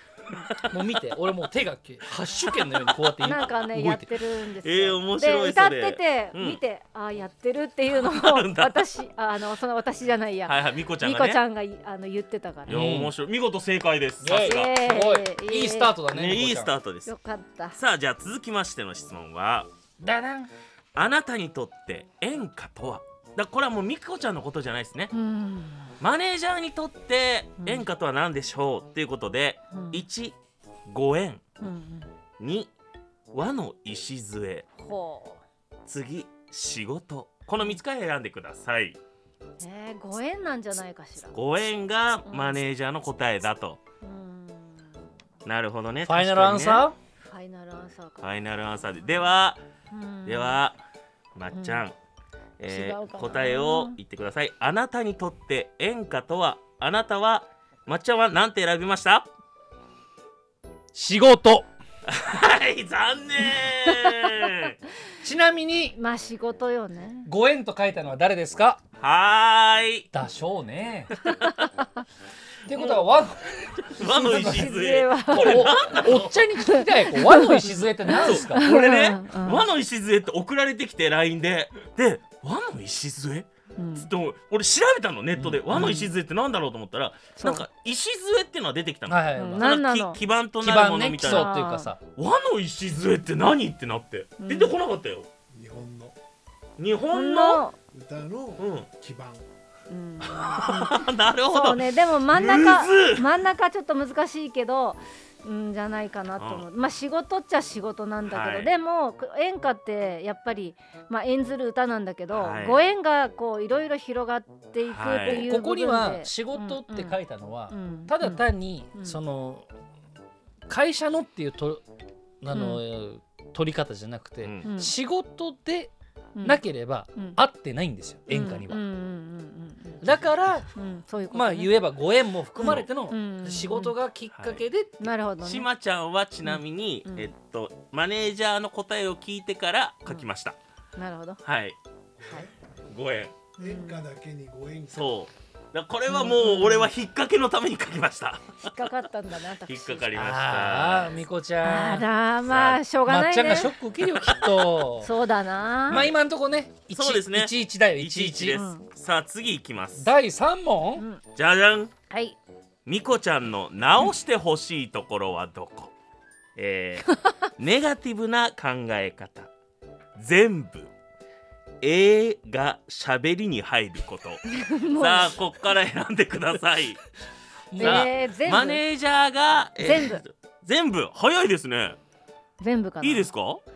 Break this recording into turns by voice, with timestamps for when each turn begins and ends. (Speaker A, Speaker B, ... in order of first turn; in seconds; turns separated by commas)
Speaker A: 0.5-0.8, Speaker B: 0.7-4.0, Speaker A: 2.5-3.1, Speaker C: 3.2-12.8, Speaker A: 4.6-6.6, Speaker A: 7.9-8.8, Speaker A: 10.4-11.4, Speaker A: 12.7-14.8, Speaker B: 12.7-13.1, Speaker B: 14.2-16.7, Speaker C: 14.3-15.9, Speaker A: 16.1-17.1, Speaker C: 17.0-17.8, Speaker A: 17.7-19.7, Speaker B: 20.0-20.5, Speaker A: 20.9-25.1, Speaker C: 25.1-25.9, Speaker A: 26.0-30.4, Speaker C: 27.6-27.9, Speaker C: 29.7-30.0, Speaker A: 30.9-31.4, Speaker C: 31.6-32.1, Speaker A: 32.4-32.7, Speaker A: 33.3-34.7, Speaker C: 34.8-35.4, Speaker A: 35.9-39.0, Speaker C: 39.6-41.4, Speaker A: 41.3-43.8, Speaker C: 42.2-42.6, Speaker C: 44.0-45.1, Speaker A: 45.4-46.9, Speaker B: 46.0-47.0, Speaker C: 47.2-48.2, Speaker A: 48.2-49.6, Speaker C: 49.9-50.6, Speaker A: 50.2-50.8, Speaker A: 51.3-51.9, Speaker C: 51.5-51.8, Speaker A: 52.6-59.3, Speaker C: 52.6-54.0, Speaker B: 60.9-61.6, Speaker A: 62.1-64.7, Speaker B: 65.2-66.0, Speaker C: 65.9-67.3, Speaker B: 67.2-68.8, Speaker A: 69.0-70.1, Speaker B: 70.1-71.1, Speaker A: 71.2-71.7, Speaker B: 72.7-78.7, Speaker A: 72.7-73.0, Speaker A: 73.8-76.3, Speaker C: 74.1-75.7, Speaker C: 76.7-79.6, Speaker A: 78.1-91.5, Speaker C: 83.8-84.1, Speaker B: 85.3-86.0, Speaker C: 85.7-86.1, Speaker C: 87.4-87.6, Speaker B: 89.1-89.6, Speaker C: 89.3-90.2, Speaker B: 90.6-92.0, Speaker C: 91.2-91.9, Speaker A: 92.2-95.3, Speaker C: 94.4-94.7, Speaker D: 95.5-96.1, Speaker A: 96.8-97.6, Speaker C: 97.1-97.8, Speaker D: 97.9-99.4, Speaker A: 98.6-98.9, Speaker C: 99.9-117.2, Speaker A: 100.4-103.3, Speaker A: 106.4-106.7, Speaker A: 108.3-108.7, Speaker A: 112.3-112.8, Speaker A: 114.9-115.5, Speaker B: 115.2-119.7, Speaker C: 117.7-118.4, Speaker B: 120.7-121.8, Speaker B: 122.4-125.9, Speaker C: 122.5-122.8, Speaker A: 124.4-124.7, Speaker C: 124.6-124.9, Speaker C: 126.3-126.6, Speaker B: 126.4-128.8, Speaker C: 128.3-130.2, Speaker B: 130.0-130.7, Speaker C: 130.7-131.8, Speaker B: 131.3-135.1, Speaker C: 132.6-133.9, Speaker A: 132.6-132.9, Speaker A: 134.3-134.6, Speaker C: 135.0-135.7, Speaker A: 135.4-140.6, Speaker C: 136.4-137.3, Speaker C: 140.9-141.4, Speaker A: 141.4-141.8, Speaker A: 142.9-143.4, Speaker C: 143.6-144.1, Speaker D: 143.6-145.0, Speaker A: 144.9-148.9, Speaker C: 146.1-146.9, Speaker C: 148.6-150.2, Speaker A: 149.7-151.2, Speaker B: 150.1-152.1, Speaker C: 151.6-153.7, Speaker A: 152.5-152.8, Speaker B: 153.1-155.1, Speaker A: 154.0-154.8, Speaker C: 155.0-156.1, Speaker B: 155.9-158.6, Speaker A: 156.9-160.1, Speaker C: 158.5-158.8, Speaker B: 159.9-161.0, Speaker A: 161.3-161.9, Speaker C: 162.1-162.3, Speaker A: 162.8-165.9, Speaker A: 166.6-169.5, Speaker A: 170.2-170.9, Speaker A: 171.8-177.0, Speaker C: 174.5-175.3, Speaker B: 177.7-178.1, Speaker C: 177.8-178.8, Speaker A: 177.8-182.0, Speaker C: 179.8-180.2, Speaker C: 182.6-183.3, Speaker A: 183.0-183.6